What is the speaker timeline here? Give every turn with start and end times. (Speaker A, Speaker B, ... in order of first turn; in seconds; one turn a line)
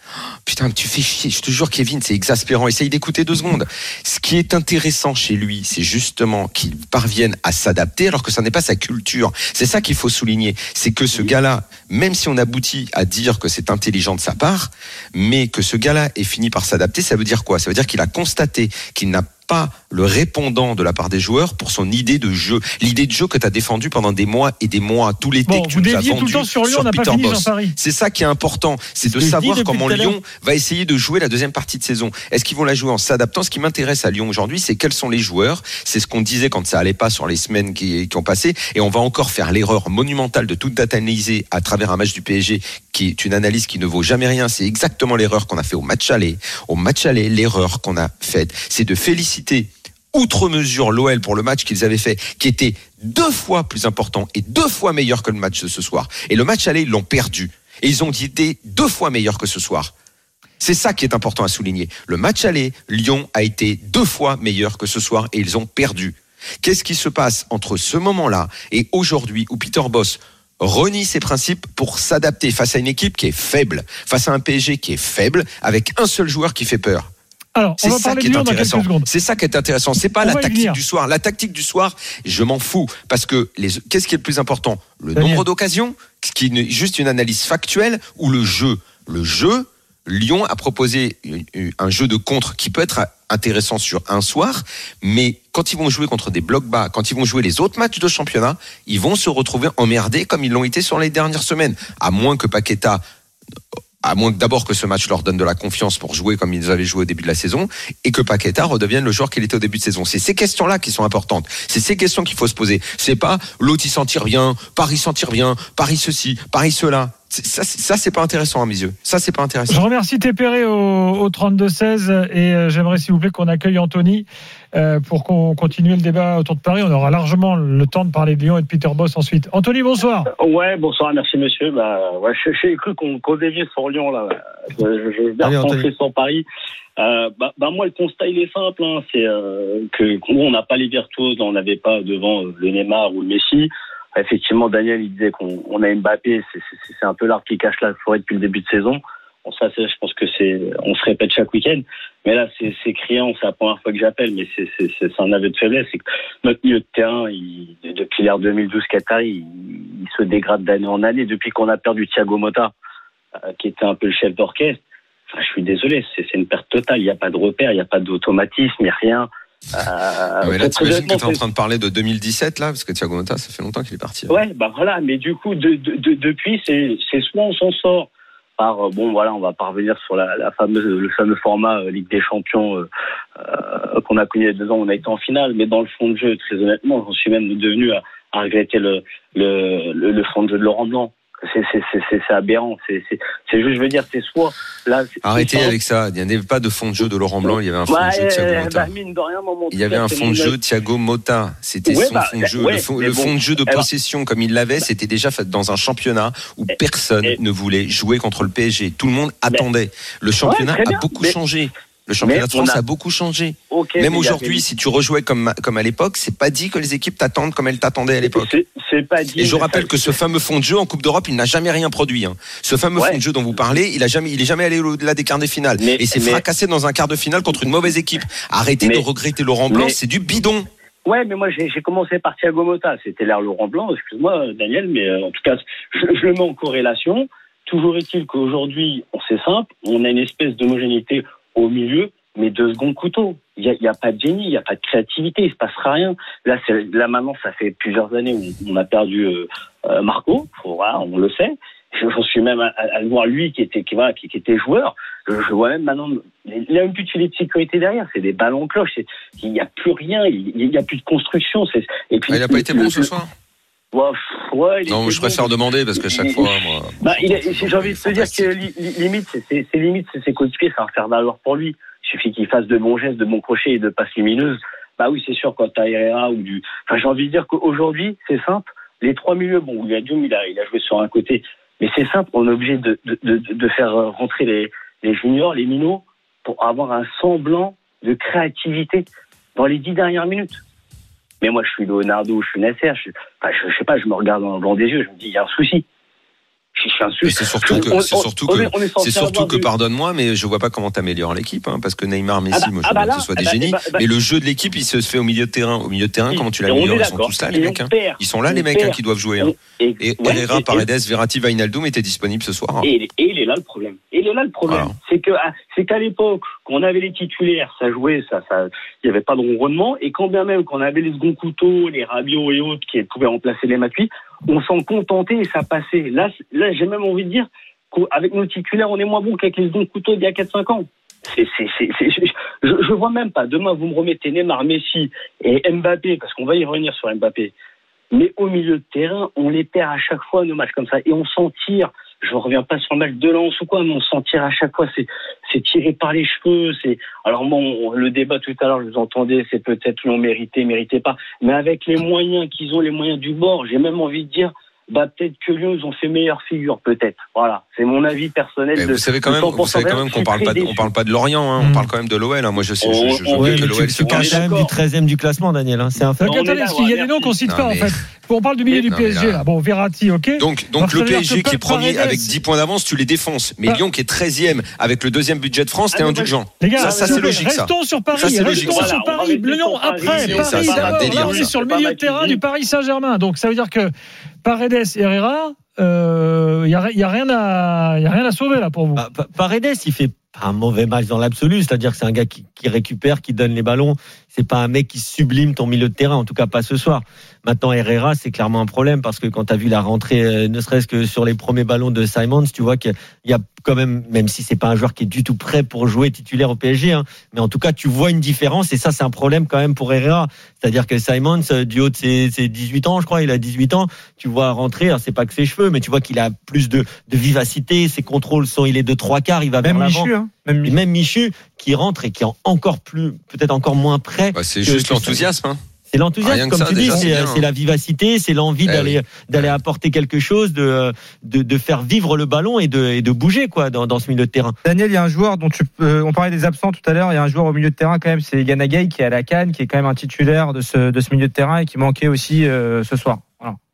Speaker A: 0.4-59.9
Speaker B: 25.5-27.8
Speaker C: 29.1-30.2
Speaker A: 60.6-77.1
Speaker B: 77.6-79.1
Speaker A: 77.8-103.0
Speaker B: 80.2-80.8
Speaker B: 85.2-85.4
Speaker A: 104.0-119.8
Speaker B: 119.7-130.3
Speaker D: 130.4-136.4
Speaker C: 135.4-135.9
Speaker D: 137.0-162.7
Speaker D: 163.5-171.4
Speaker A: 170.4-174.4
Speaker D: 174.3-182.9
Speaker D: 183.4-195.8
Speaker A: 195.2-198.9
Speaker D: 197.4-200.6
Speaker A: 199.7-218.6
Speaker D: 201.9-203.9
Speaker D: 210.4-211.3
Speaker D: 212.2-212.8
Speaker D: 213.7-214.6
Speaker D: 218.2-220.2
Speaker A: 219.4-230.7
Speaker D: 223.0-223.2
Speaker D: 225.8-226.4
Speaker D: 229.7-230.0
Speaker D: 231.1-263.1
Speaker A: 262.3-263.3
Speaker D: 263.9-289.1
Speaker A: 264.9-268.6
Speaker D: 289.6-290.6
Speaker D: 291.4-295.9
Speaker D: 296.8-299.7
Speaker A: 297.2-312.9
Speaker D: 302.5-304.0
Speaker D: 306.3-310.9
Speaker D: 312.8-337.5
Speaker A: 314.7-314.9
Speaker D: 338.1-360.9
Speaker A: 358.8-364.5
Speaker B: 361.6-361.9
Speaker D: 362.8-364.7
Speaker C: 363.4-366.3
Speaker B: 366.2-372.4
Speaker D: 366.2-367.4
Speaker A: 367.5-367.9
Speaker A: 368.9-369.5
Speaker A: 370.4-378.9
Speaker D: 375.9-377.5
Speaker B: 376.6-383.9
Speaker D: 378.2-382.4
Speaker A: 380.0-381.5
Speaker B: 384.4-389.0
Speaker C: 389.0-420.1
Speaker E: 419.6-420.8
Speaker C: 420.6-425.2
Speaker A: 424.3-425.6
Speaker C: 425.9-434.6
Speaker A: 426.2-427.5
Speaker A: 428.6-429.6
Speaker E: 434.6-443.6